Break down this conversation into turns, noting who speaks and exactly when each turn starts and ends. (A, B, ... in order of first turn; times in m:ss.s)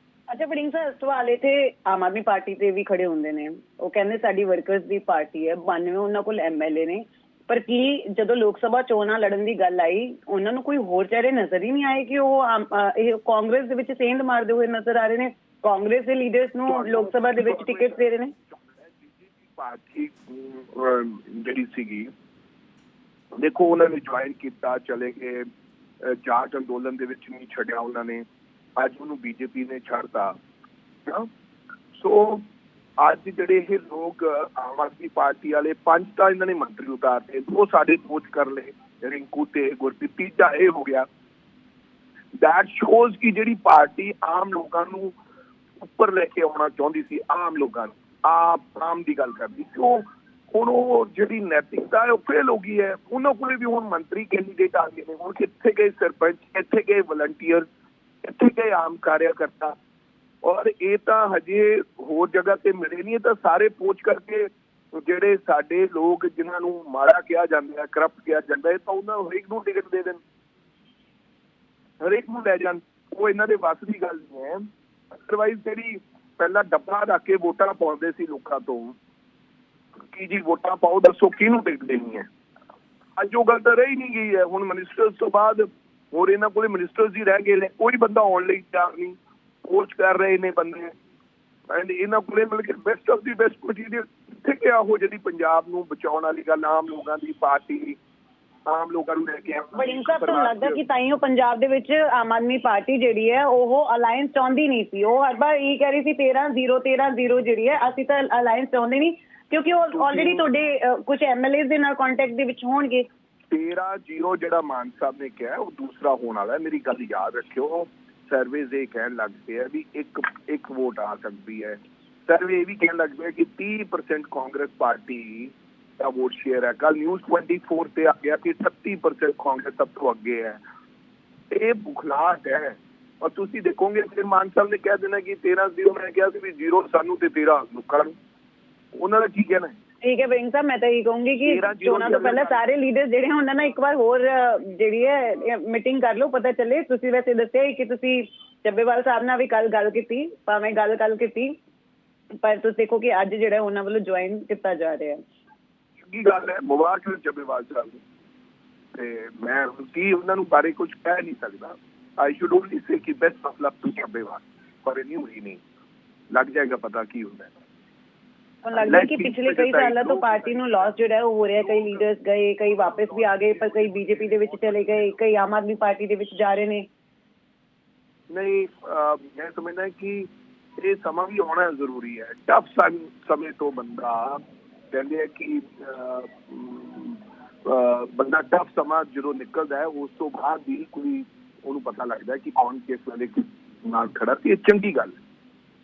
0:00.3-0:18.3 A
0:16.6-0:22.1 B
0:23.4-0:25.4 B
0:26.0-0:28.2 B
0:28.8-0:30.4 B
0:31.9-0:32.4 B
0:33.0-0:41.1 B
0:42.4-0:45.2 B
0:45.8-0:57.7 B
0:58.2-0:59.8 B
1:00.4-1:10.2 B
1:12.0-1:19.0 B
1:20.1-1:22.3 B
1:23.2-1:30.9 B
1:31.7-1:38.0 B
1:38.6-1:40.8 B
1:39.7-1:53.0 A
1:49.9-1:50.5 B
1:53.5-2:10.6 B
2:11.5-2:18.2 B
2:18.9-2:19.8 B
2:20.0-2:31.5 A
2:21.4-2:22.6 B
2:32.4-2:35.2 A
2:36.0-2:38.0 B
2:38.9-2:45.6 B
2:46.3-2:47.5 B
2:48.6-2:56.9 A
2:48.7-2:55.2 B
2:58.3-3:04.4 B
3:04.9-3:15.2 B